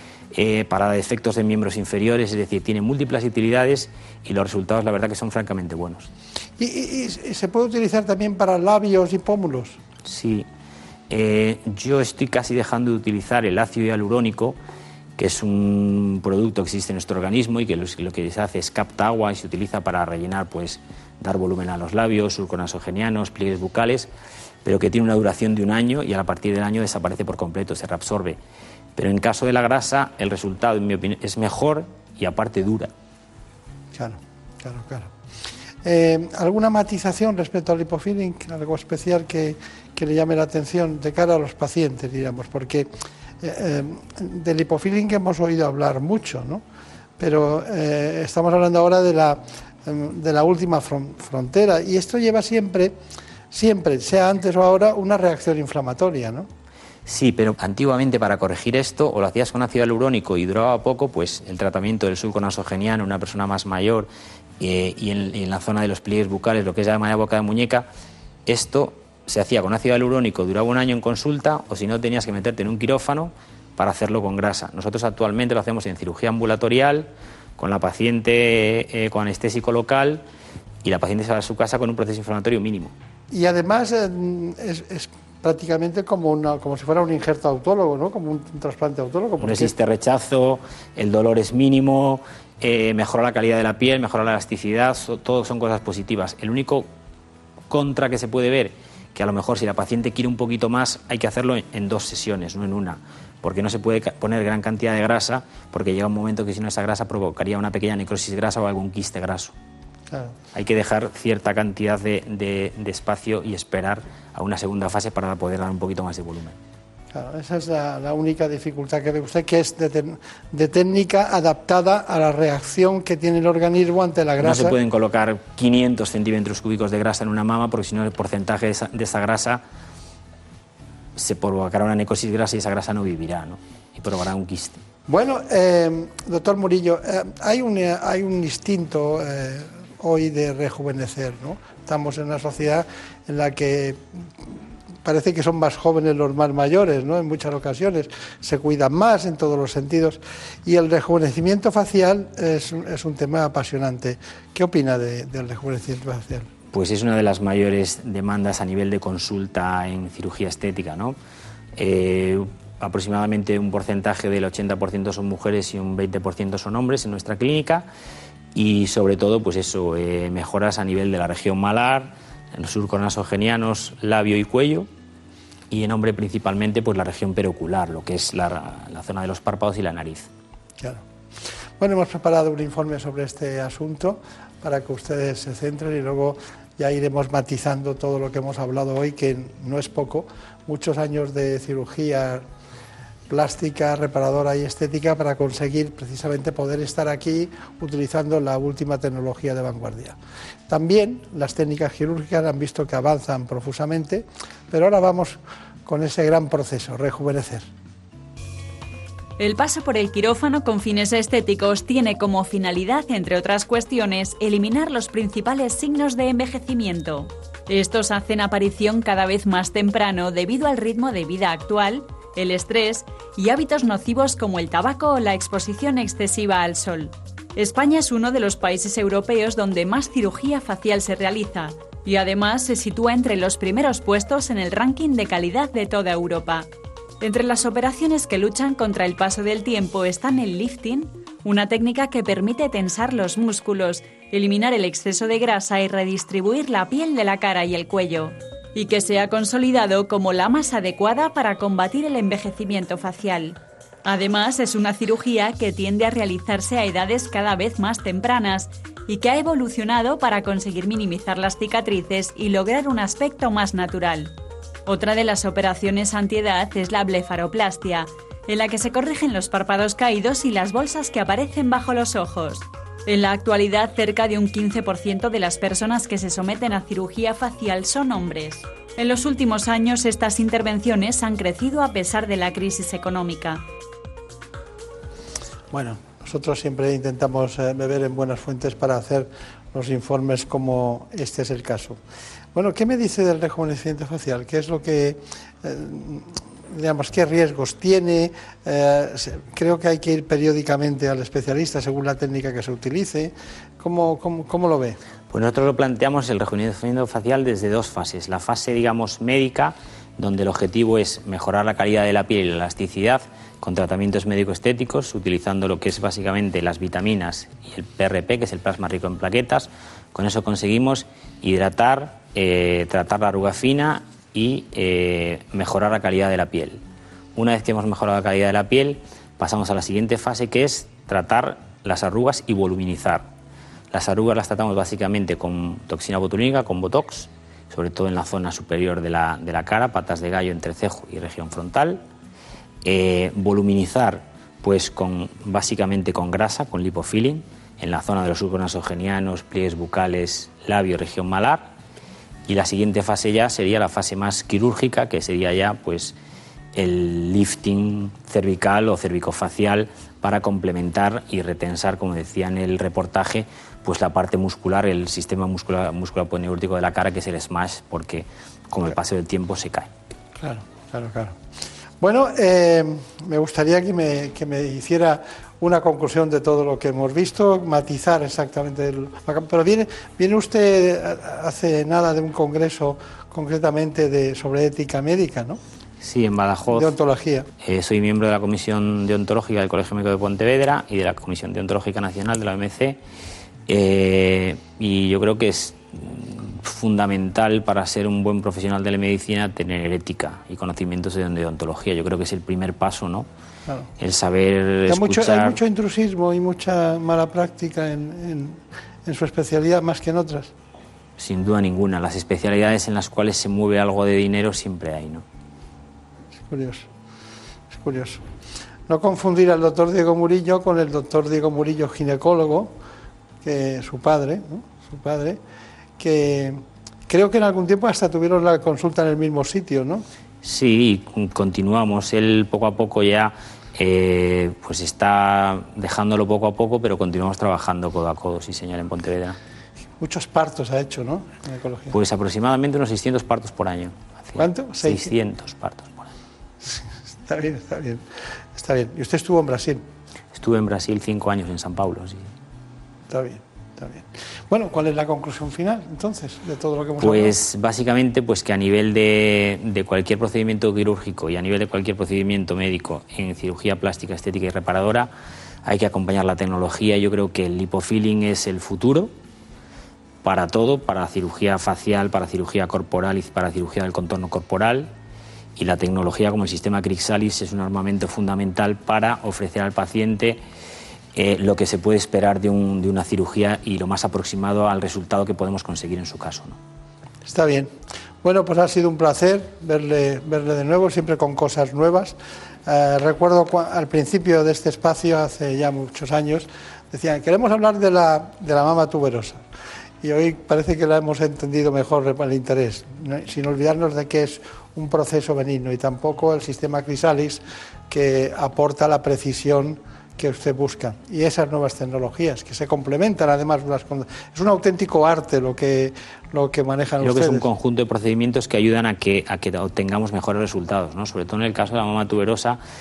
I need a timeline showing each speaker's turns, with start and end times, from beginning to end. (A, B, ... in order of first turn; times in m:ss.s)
0:00.3-0:06.1 A
0:06.6-0:09.8 B
0:10.0-0:10.5 A
0:11.1-0:14.6 A
0:15.2-0:24.1 A
0:24.6-0:28.4 A
0:29.0-0:32.9 A
0:33.9-0:35.1 B
0:35.8-0:46.6 B
0:47.2-0:53.0 B
0:53.5-0:56.5 B
0:57.0-1:04.1 A
1:04.6-1:07.9 A
1:08.4-1:20.2 A
1:20.8-1:22.9 A
1:23.3-1:29.7 B
1:29.4-1:36.9 A
1:37.7-1:49.5 A
1:50.1-1:50.3 B
1:50.5-1:56.6 A
1:57.1-2:04.8 B
2:04.4-2:09.6 A
2:11.2-2:14.8 A
2:15.1-2:24.5 B
2:25.0-2:36.5 B
2:36.7-2:41.2 A
2:41.8-2:47.8 A
2:48.5-2:54.9 A
2:55.7-3:00.3 A
3:01.8-3:12.4 B
3:13.3-3:20.2 B
3:20.7-3:27.7 B
3:29.4-3:56.7 C
3:57.2-4:24.3 C
4:24.8-4:43.6 C
4:45.7-4:52.0 B
4:52.5-5:05.0 B
5:05.3-5:26.8 A
5:27.4-5:33.3 A
5:33.9-5:42.0 A
5:42.8-5:51.7 A
5:52.5-5:56.1 A
5:56.8-6:09.9 A
6:10.4-6:11.4 B
6:12.0-6:25.6 B
6:26.0-6:26.9 A
6:26.7-6:27.5 B
6:27.6-6:33.0 A
6:33.7-6:43.3 A
6:44.0-6:45.6 A
6:44.9-6:50.5 B
6:51.2-6:55.2 A
6:56.4-6:56.9 B
6:57.7-6:58.2 B
6:58.9-7:02.8 B
7:03.4-7:05.4 B
7:06.0-7:10.0 B
7:10.4-7:19.4 A
7:20.0-7:21.9 B
7:21.9-7:26.1 A
7:24.4-7:25.1 B
7:26.6-7:29.8 B
7:30.3-7:32.3 A
7:33.1-7:37.4 B
7:37.0-7:45.1 A
7:45.6-7:49.1 A
7:50.2-7:54.9 A
7:55.6-8:00.4 A
8:01.2-8:06.6 A
8:07.2-8:19.4 B
8:20.0-8:37.5 B
8:37.0-8:42.6 A